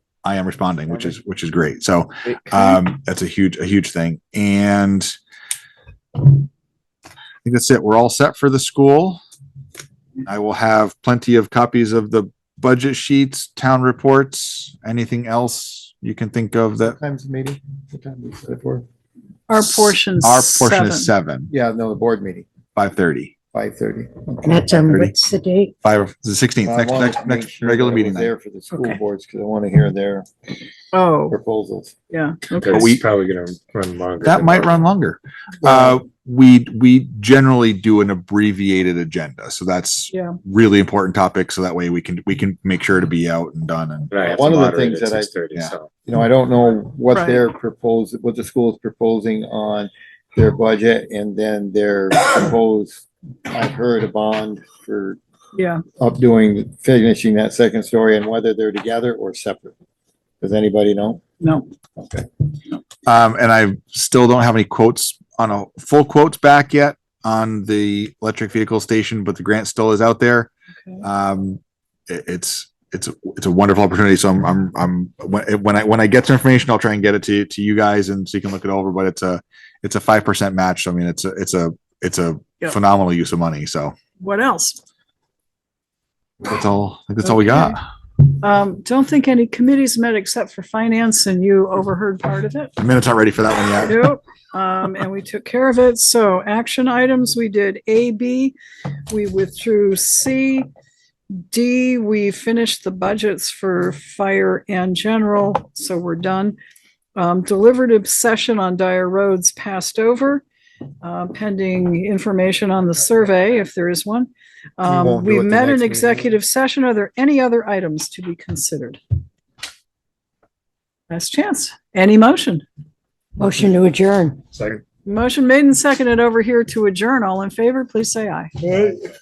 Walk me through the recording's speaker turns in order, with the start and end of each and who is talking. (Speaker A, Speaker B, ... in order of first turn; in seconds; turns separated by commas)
Speaker A: 0.2-5.2, Speaker A: 7.4-9.2, Speaker A: 10.2-17.0, Speaker B: 16.8-18.9, Speaker C: 19.5-21.1, Speaker A: 19.6-21.5, Speaker B: 21.5-22.5, Speaker A: 22.8-23.3, Speaker B: 23.5-24.4, Speaker D: 24.4-25.7, Speaker A: 25.8-28.3, Speaker B: 26.6-30.3, Speaker C: 30.9-31.4, Speaker B: 31.3-32.0, Speaker C: 32.1-33.0, Speaker E: 32.6-34.8, Speaker A: 32.7-33.0, Speaker A: 34.2-44.1, Speaker B: 35.6-36.0, Speaker C: 40.1-40.4, Speaker E: 44.1-45.9, Speaker B: 44.2-45.3, Speaker B: 46.1-55.2, Speaker C: 47.1-47.4, Speaker C: 55.6-55.8, Speaker B: 56.0-59.7, Speaker B: 60.4-61.2, Speaker C: 61.4-61.7, Speaker B: 62.0-62.3, Speaker A: 63.1-70.5, Speaker A: 71.0-84.0, Speaker C: 84.2-84.8, Speaker A: 86.4-87.8, Speaker C: 87.3-92.7, Speaker A: 92.8-94.0, Speaker C: 93.8-98.6, Speaker C: 99.1-100.7, Speaker C: 101.4-106.6, Speaker C: 107.2-110.4, Speaker C: 111.0-119.0, Speaker B: 114.9-116.3, Speaker C: 121.1-122.6, Speaker D: 123.4-124.6, Speaker C: 125.0-128.6, Speaker D: 128.6-129.0